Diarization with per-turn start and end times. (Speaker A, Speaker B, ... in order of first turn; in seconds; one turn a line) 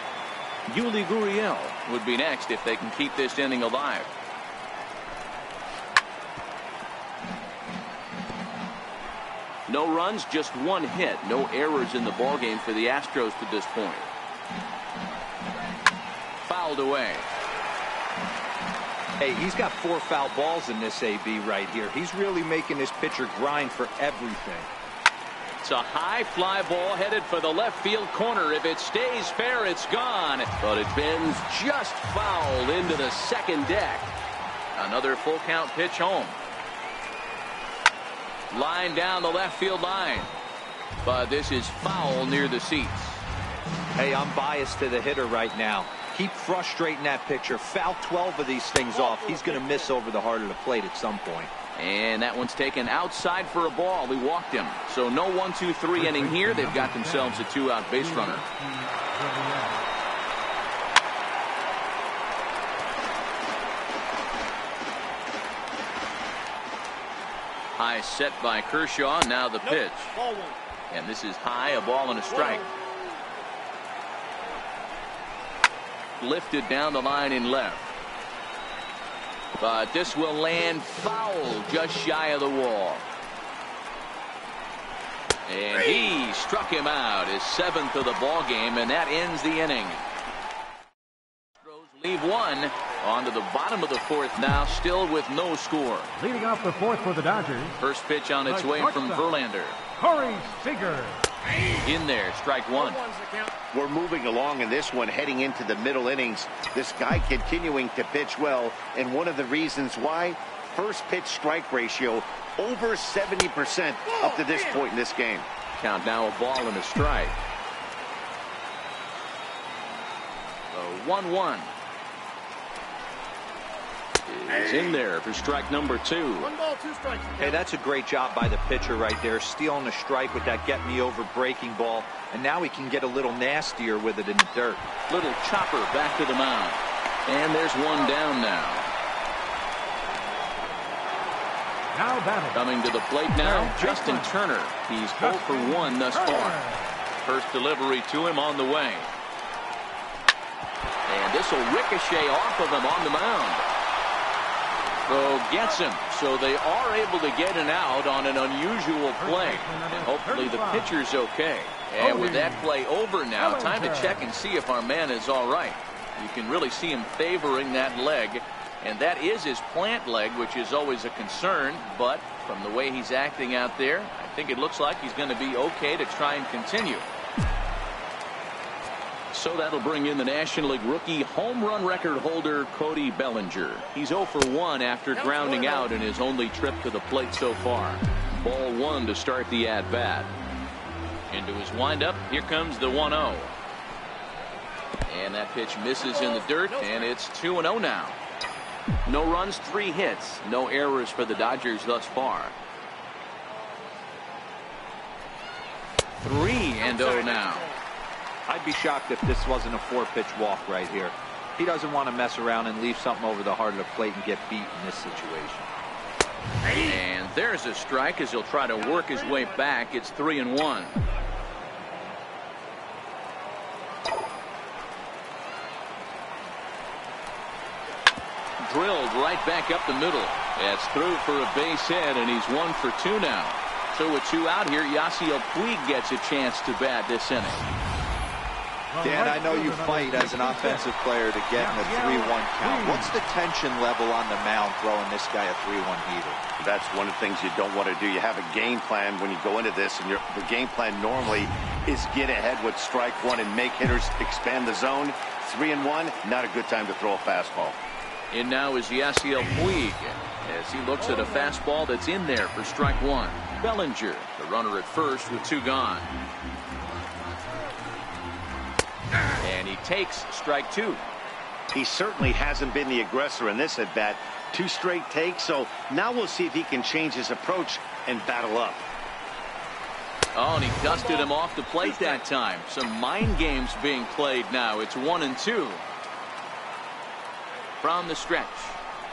Speaker A: 0.7-4.2
Speaker A: 9.7-14.1
Speaker A: 16.4-17.3
Speaker B: 19.2-24.7
Speaker A: 25.6-34.1
Speaker A: 34.8-36.4
Speaker A: 38.5-40.3
Speaker A: 41.0-43.3
Speaker B: 44.0-51.5
Speaker C: 48.9-50.0
Speaker A: 51.8-58.5
Speaker D: 56.0-59.8
Speaker A: 67.8-70.2
Speaker C: 69.6-70.6
Speaker A: 70.9-72.7
Speaker C: 72.3-72.7
Speaker A: 76.2-77.9
Speaker A: 79.6-83.1
Speaker A: 85.5-90.0
Speaker A: 91.6-96.1
Speaker D: 96.2-97.8
Speaker A: 97.8-99.8
Speaker D: 98.5-99.3
Speaker D: 100.0-101.3
Speaker C: 101.6-101.9
Speaker A: 101.8-103.0
Speaker C: 102.7-103.5
Speaker E: 103.7-115.5
Speaker C: 114.0-114.9
Speaker A: 115.8-117.4
Speaker A: 120.7-121.7
Speaker A: 124.3-126.5
Speaker C: 124.5-125.0
Speaker C: 126.4-127.6
Speaker B: 127.4-134.9
Speaker A: 135.1-138.9
Speaker D: 141.9-142.6
Speaker A: 142.5-146.6
Speaker D: 143.4-144.3
Speaker D: 145.2-147.0
Speaker A: 147.2-149.1
Speaker A: 151.1-153.7
Speaker A: 155.1-177.1
Speaker D: 159.2-161.0
Speaker D: 162.0-162.7
Speaker D: 163.4-164.3
Speaker A: 179.3-190.3
Speaker C: 185.1-185.9
Speaker A: 191.3-193.6
Speaker A: 195.1-198.2
Speaker C: 196.0-197.2
Speaker A: 199.1-202.5
Speaker A: 206.2-207.7
Speaker C: 206.8-207.8
Speaker B: 208.5-215.7
Speaker C: 216.6-217.0
Speaker A: 216.8-221.0
Speaker C: 218.8-219.6
Speaker A: 228.6-237.6
Speaker D: 238.9-240.9
Speaker B: 239.0-246.4
Speaker D: 241.6-243.2
Speaker E: 246.6-257.8
Speaker A: 258.3-266.1
Speaker C: 261.0-261.6
Speaker A: 269.4-271.1
Speaker E: 271.7-278.9
Speaker A: 280.4-285.9
Speaker C: 280.8-282.2
Speaker A: 287.8-288.8